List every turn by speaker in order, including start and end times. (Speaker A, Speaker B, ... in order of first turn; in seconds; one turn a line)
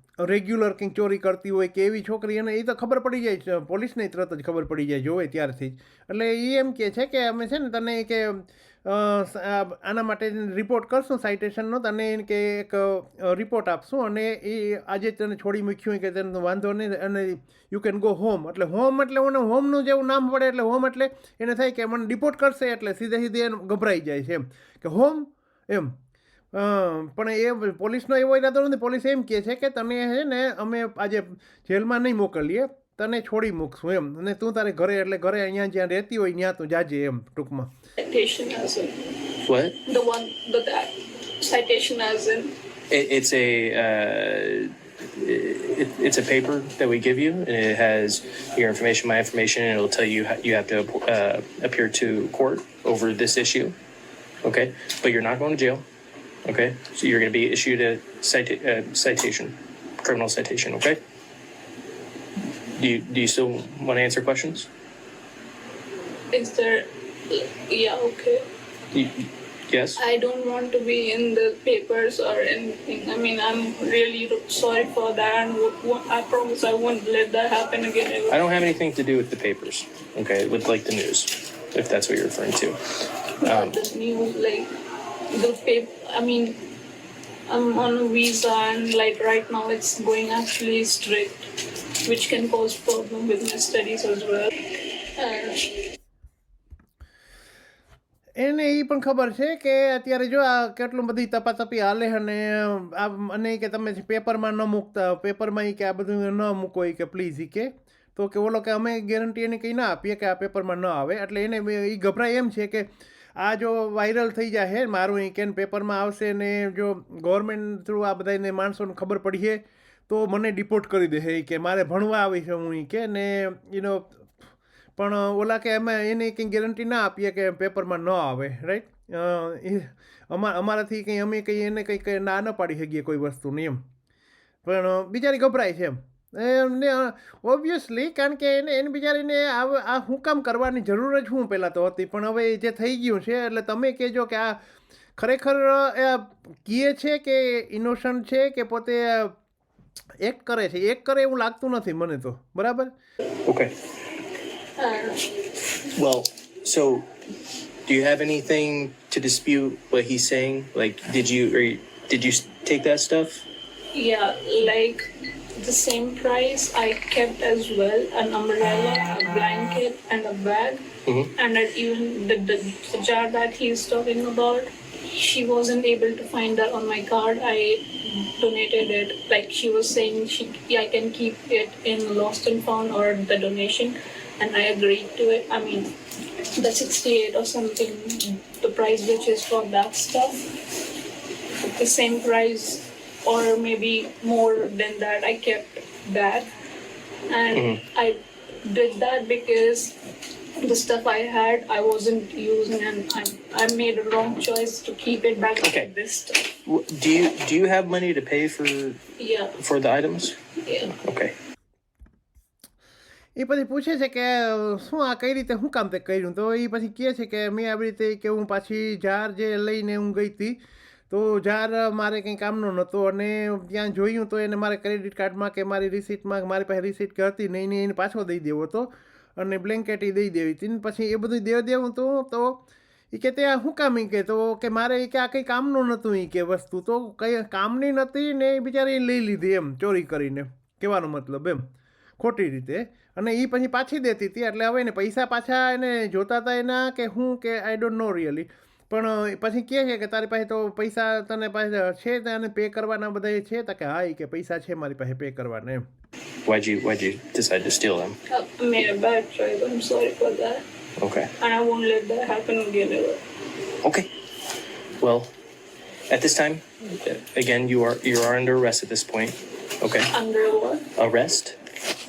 Speaker A: 0.2-26.0
Speaker A: 26.5-37.7
Speaker B: 38.0-39.0
Speaker C: 39.5-39.8
Speaker B: 39.9-42.5
Speaker C: 42.9-53.8
Speaker C: 54.4-55.8
Speaker C: 56.5-61.0
Speaker C: 62.8-64.7
Speaker B: 66.3-68.4
Speaker C: 68.9-70.0
Speaker B: 70.0-78.4
Speaker C: 78.3-82.8
Speaker B: 83.4-84.7
Speaker C: 83.5-83.8
Speaker B: 85.3-86.6
Speaker B: 87.5-91.5
Speaker B: 92.0-94.5
Speaker B: 95.2-95.7
Speaker A: 98.4-133.8
Speaker A: 134.6-144.6
Speaker A: 145.2-149.3
Speaker A: 150.2-152.9
Speaker C: 153.5-153.7
Speaker B: 154.8-155.2
Speaker C: 156.0-157.1
Speaker C: 157.9-163.4
Speaker B: 163.9-165.1
Speaker B: 165.6-185.9
Speaker C: 171.1-171.3
Speaker B: 186.6-190.5
Speaker B: 191.6-196.5
Speaker B: 197.3-200.0
Speaker C: 197.5-197.8
Speaker B: 200.6-206.5
Speaker C: 205.6-205.9
Speaker C: 206.6-209.0
Speaker B: 209.2-209.6
Speaker C: 209.6-210.4
Speaker B: 210.7-210.9
Speaker C: 211.0-211.3
Speaker A: 213.4-220.6
Speaker A: 221.1-241.7
Speaker A: 242.2-255.8
Speaker C: 256.5-258.2
Speaker B: 258.3-260.6
Speaker C: 261.0-261.3
Speaker B: 261.4-263.2
Speaker C: 263.8-264.1
Speaker C: 265.0-265.3
Speaker C: 266.1-270.1
Speaker B: 270.1-270.9
Speaker C: 271.0-271.6